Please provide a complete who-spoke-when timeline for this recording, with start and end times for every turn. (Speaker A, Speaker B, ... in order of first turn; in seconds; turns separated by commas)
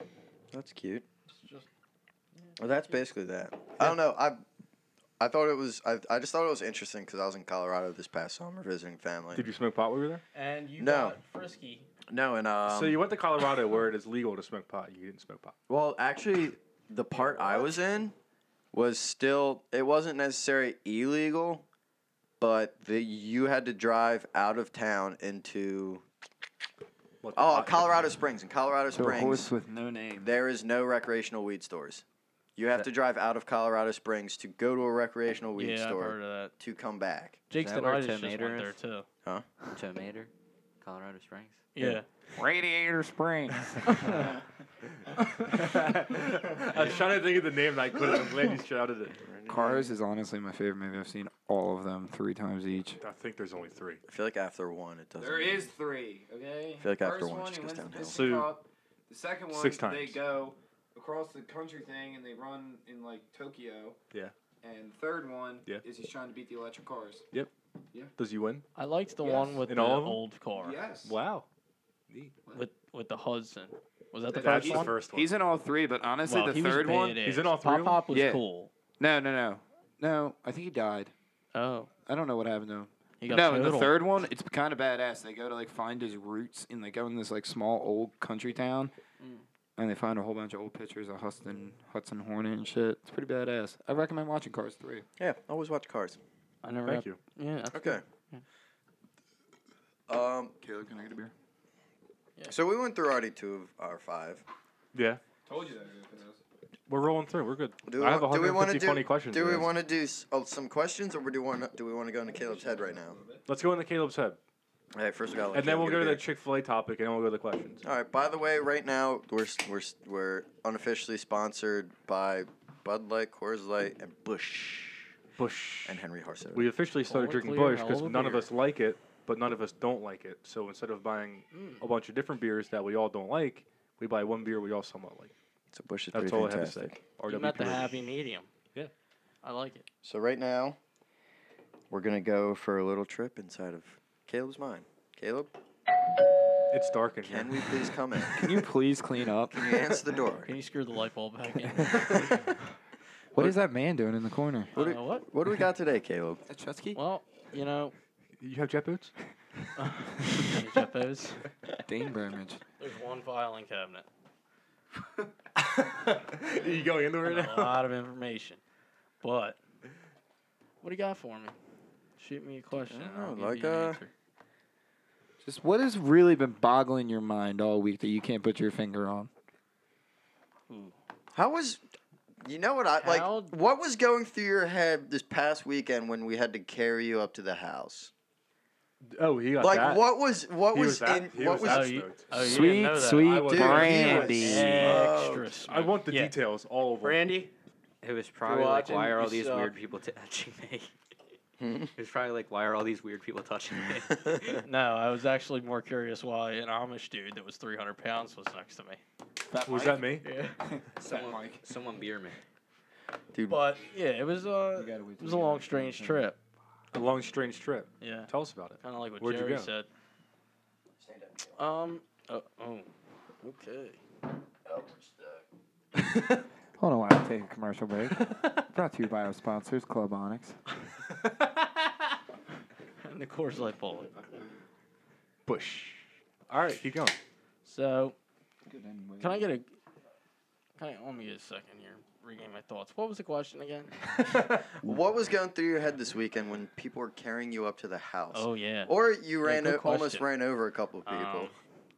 Speaker A: 0.5-1.0, Speaker B: 1.3-1.7, Speaker A: 2.6-4.4, Speaker A: 5.2-9.5, Speaker C: 9.3-10.2, Speaker B: 10.3-11.9, Speaker A: 10.8-11.2, Speaker A: 12.1-13.0, Speaker C: 12.6-15.5, Speaker A: 15.7-18.1, Speaker B: 17.1-17.8, Speaker A: 18.7-21.6, Speaker A: 22.4-26.0, Speaker C: 27.2-28.0, Speaker A: 27.3-29.5, Speaker D: 28.9-30.3, Speaker A: 30.2-32.0, Speaker A: 32.5-37.4, Speaker B: 35.5-36.5, Speaker B: 37.5-39.0, Speaker E: 37.5-38.8, Speaker E: 39.7-40.3, Speaker E: 40.8-41.6, Speaker B: 41.7-42.0, Speaker D: 41.8-44.3, Speaker B: 43.9-44.3, Speaker B: 45.2-45.5, Speaker C: 45.5-49.2, Speaker A: 49.2-49.9, Speaker D: 49.5-53.0, Speaker C: 53.0-54.0, Speaker A: 54.1-55.7, Speaker D: 55.2-64.0, Speaker A: 56.8-58.3, Speaker C: 58.1-58.6, Speaker C: 59.5-60.2, Speaker D: 64.6-67.2, Speaker C: 68.2-68.6, Speaker B: 68.8-70.8, Speaker D: 69.2-69.6, Speaker C: 69.7-70.2, Speaker D: 70.6-71.1, Speaker C: 71.0-71.5, Speaker B: 72.5-75.0, Speaker D: 74.3-77.2, Speaker C: 74.3-75.3, Speaker B: 76.2-78.7, Speaker C: 77.2-78.0, Speaker D: 78.1-78.4, Speaker D: 79.0-81.1, Speaker B: 81.5-81.9, Speaker D: 82.0-88.9, Speaker B: 83.2-84.0, Speaker D: 89.8-95.0, Speaker A: 95.2-96.2, Speaker B: 96.6-98.4, Speaker C: 96.8-97.2, Speaker A: 97.7-98.0, Speaker A: 100.1-100.5, Speaker D: 100.6-101.3, Speaker A: 102.5-104.4, Speaker C: 104.9-105.2, Speaker D: 105.4-106.4, Speaker C: 106.9-109.7, Speaker A: 107.8-113.2, Speaker D: 112.4-113.4, Speaker C: 113.5-114.4, Speaker A: 114.9-116.2, Speaker C: 115.5-117.8, Speaker A: 117.8-125.1, Speaker C: 125.4-126.0, Speaker A: 125.8-126.7, Speaker C: 126.5-135.3, Speaker B: 127.0-128.5, Speaker B: 131.5-131.8, Speaker A: 135.7-137.0, Speaker C: 136.1-137.9, Speaker B: 137.2-138.5, Speaker B: 139.4-139.8, Speaker A: 140.0-140.8, Speaker A: 141.9-145.5, Speaker C: 146.7-147.8, Speaker A: 147.2-148.6, Speaker D: 148.3-149.9, Speaker A: 149.5-150.5, Speaker B: 150.4-152.5, Speaker D: 151.8-152.2, Speaker D: 153.3-154.7, Speaker A: 154.7-156.4, Speaker B: 154.7-155.3, Speaker D: 156.5-157.0, Speaker B: 156.9-157.9, Speaker C: 158.4-159.1, Speaker B: 159.8-161.4, Speaker D: 161.8-162.6, Speaker B: 162.8-164.1, Speaker C: 165.6-167.8, Speaker B: 167.2-168.6, Speaker B: 169.2-169.6, Speaker B: 170.8-171.6, Speaker B: 172.2-174.1, Speaker A: 172.9-174.0, Speaker D: 175.4-179.3, Speaker B: 180.7-180.9, Speaker A: 181.3-181.8, Speaker A: 182.4-188.1, Speaker B: 183.0-183.5, Speaker C: 189.1-190.1, Speaker A: 189.6-192.0, Speaker C: 190.7-192.6, Speaker B: 191.6-196.3, Speaker D: 192.3-195.0, Speaker C: 193.2-194.8, Speaker A: 193.5-195.6, Speaker C: 195.7-197.3, Speaker B: 197.0-197.5, Speaker E: 198.0-200.9, Speaker B: 198.4-199.8, Speaker A: 201.6-201.9, Speaker E: 201.9-204.6, Speaker B: 204.6-209.0, Speaker D: 209.5-211.6, Speaker C: 209.6-210.2, Speaker B: 210.2-210.6, Speaker E: 211.0-212.4, Speaker A: 213.3-213.6, Speaker B: 213.5-216.4, Speaker D: 214.7-216.3, Speaker C: 216.9-219.7, Speaker B: 218.0-219.9, Speaker A: 221.0-221.6, Speaker B: 221.6-222.9, Speaker B: 223.4-224.0, Speaker A: 224.7-225.4, Speaker D: 226.8-230.6, Speaker B: 233.0-234.1, Speaker C: 235.4-237.2, Speaker B: 237.6-238.2, Speaker D: 238.7-239.5, Speaker B: 239.2-239.7, Speaker B: 240.8-243.9, Speaker C: 244.2-244.7, Speaker A: 244.8-251.5, Speaker B: 248.3-250.3, Speaker B: 251.0-251.5